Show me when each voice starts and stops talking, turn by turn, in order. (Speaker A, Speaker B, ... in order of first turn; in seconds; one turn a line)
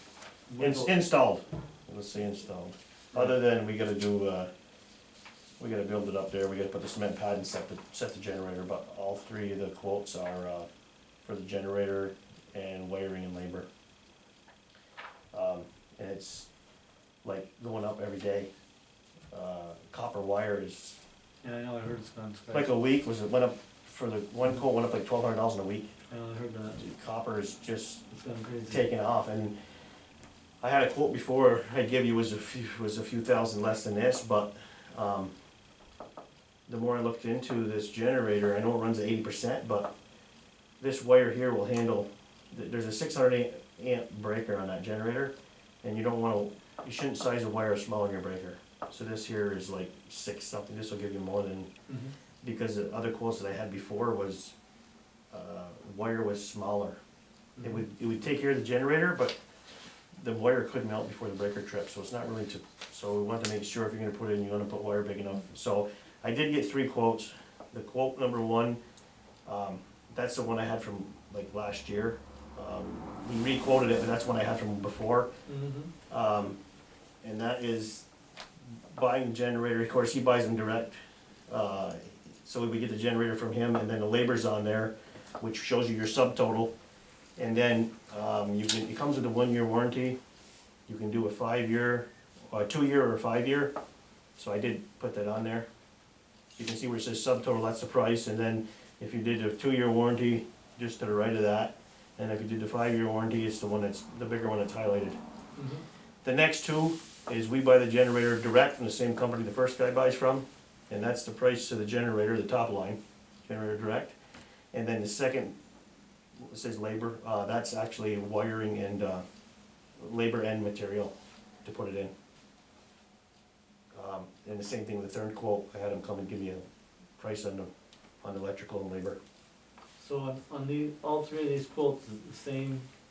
Speaker A: 0.5-1.0
Speaker B: 0.6-4.5
Speaker B: 5.6-10.7
Speaker B: 11.2-13.7
Speaker B: 15.3-16.5
Speaker B: 17.2-18.5
Speaker B: 19.3-21.0
Speaker A: 21.4-22.7
Speaker B: 22.5-25.9
Speaker A: 26.1-26.8
Speaker B: 26.8-28.0
Speaker A: 28.1-28.9
Speaker B: 28.7-29.6
Speaker B: 30.6-35.3
Speaker B: 36.7-39.9
Speaker B: 40.8-51.7
Speaker A: 51.9-52.1
Speaker B: 52.4-54.5
Speaker B: 55.3-57.0
Speaker B: 57.6-59.4
Speaker B: 60.2-68.8
Speaker B: 69.5-75.3
Speaker A: 75.5-75.9
Speaker B: 76.1-76.6
Speaker B: 77.2-78.0
Speaker B: 78.7-86.7
Speaker B: 87.4-90.2
Speaker B: 90.9-93.7
Speaker B: 94.4-95.7
Speaker B: 96.6-105.2
Speaker A: 105.6-105.8
Speaker B: 106.2-114.2
Speaker B: 114.7-115.5
Speaker B: 116.4-119.2
Speaker B: 120.0-121.1
Speaker B: 121.6-122.1
Speaker B: 123.9-126.7
Speaker B: 127.2-127.7
Speaker B: 128.2-129.2
Speaker A: 130.0-132.9